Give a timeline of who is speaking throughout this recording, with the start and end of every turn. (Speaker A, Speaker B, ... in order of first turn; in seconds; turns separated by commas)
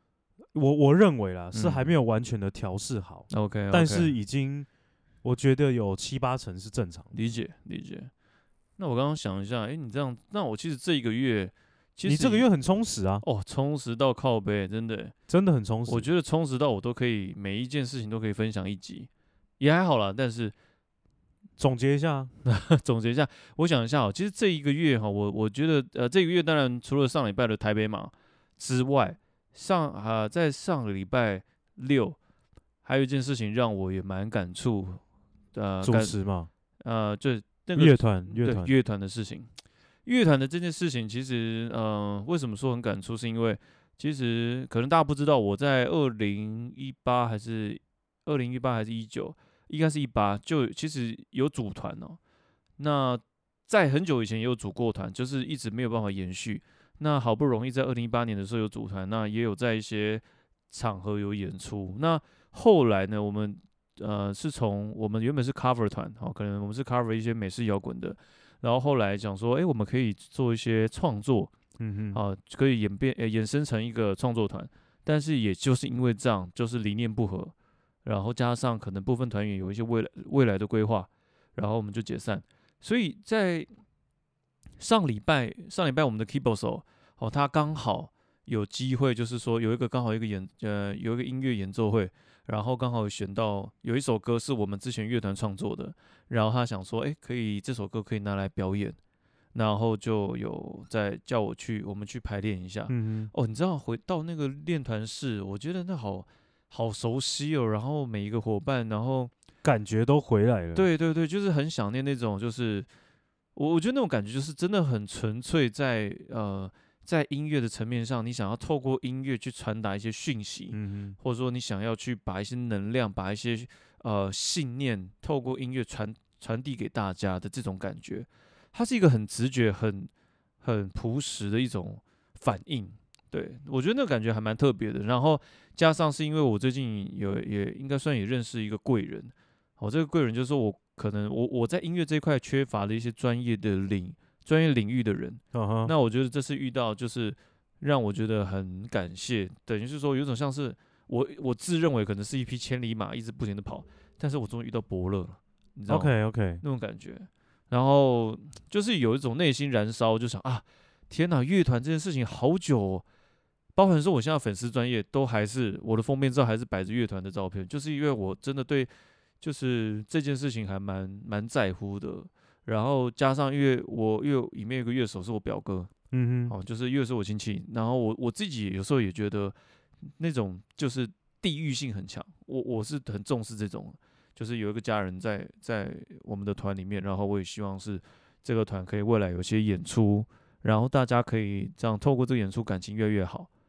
Speaker A: 0.5-4.7, Speaker B: 1.5-1.9, Speaker B: 3.3-4.2, Speaker A: 5.2-7.1, Speaker B: 7.1-8.1, Speaker B: 8.8-12.5, Speaker A: 12.1-13.2, Speaker B: 13.2-15.1, Speaker A: 15.3-16.1, Speaker B: 15.9-20.5, Speaker A: 21.6-22.3, Speaker B: 22.4-32.2, Speaker B: 32.8-35.0, Speaker B: 35.5-36.2, Speaker A: 35.8-36.5, Speaker B: 36.8-39.5, Speaker A: 37.8-38.7, Speaker B: 40.1-52.2, Speaker B: 52.8-71.5, Speaker A: 71.8-72.2, Speaker B: 72.1-77.5, Speaker B: 78.0-83.7, Speaker B: 84.8-99.0, Speaker B: 99.5-109.3, Speaker A: 102.9-103.3, Speaker A: 109.6-110.9, Speaker B: 110.8-112.9, Speaker B: 113.6-130.1, Speaker A: 120.7-121.2, Speaker B: 130.6-156.1, Speaker A: 145.5-145.9, Speaker A: 155.9-156.6, Speaker B: 156.6-163.1, Speaker B: 163.8-168.9, Speaker B: 169.4-175.9, Speaker A: 176.1-176.6, Speaker B: 176.5-179.6, Speaker B: 180.2-193.5